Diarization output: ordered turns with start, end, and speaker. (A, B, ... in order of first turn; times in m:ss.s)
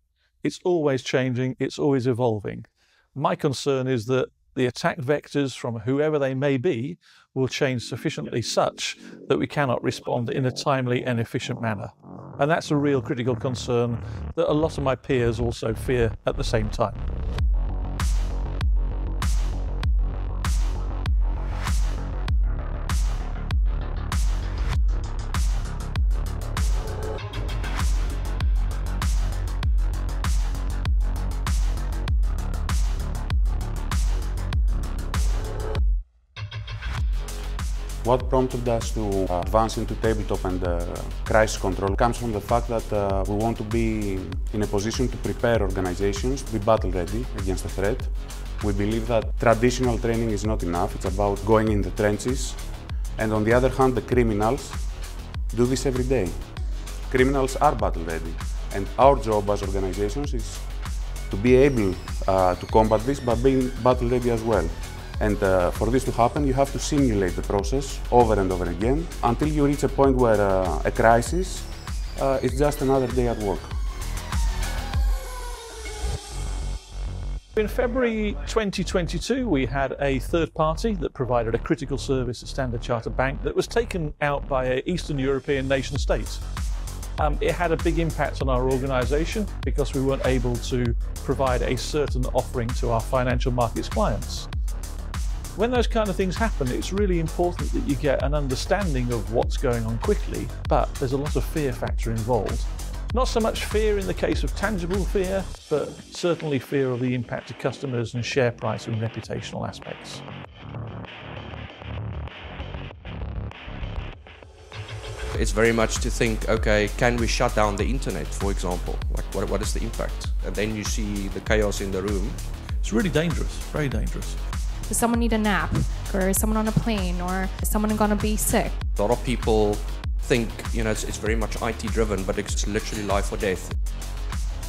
0:00.4-0:17.0 A
0:38.0-0:52.6 B
0:53.2-0:54.8 B
0:55.5-0:56.4 B
0:57.1-1:00.6 B
1:01.3-1:13.7 B
1:17.6-1:26.4 A
1:27.2-1:34.5 A
1:35.6-1:50.2 A
1:55.3-2:02.4 C
2:02.8-2:04.4 A
2:04.9-2:08.8 D
2:09.0-2:13.7 C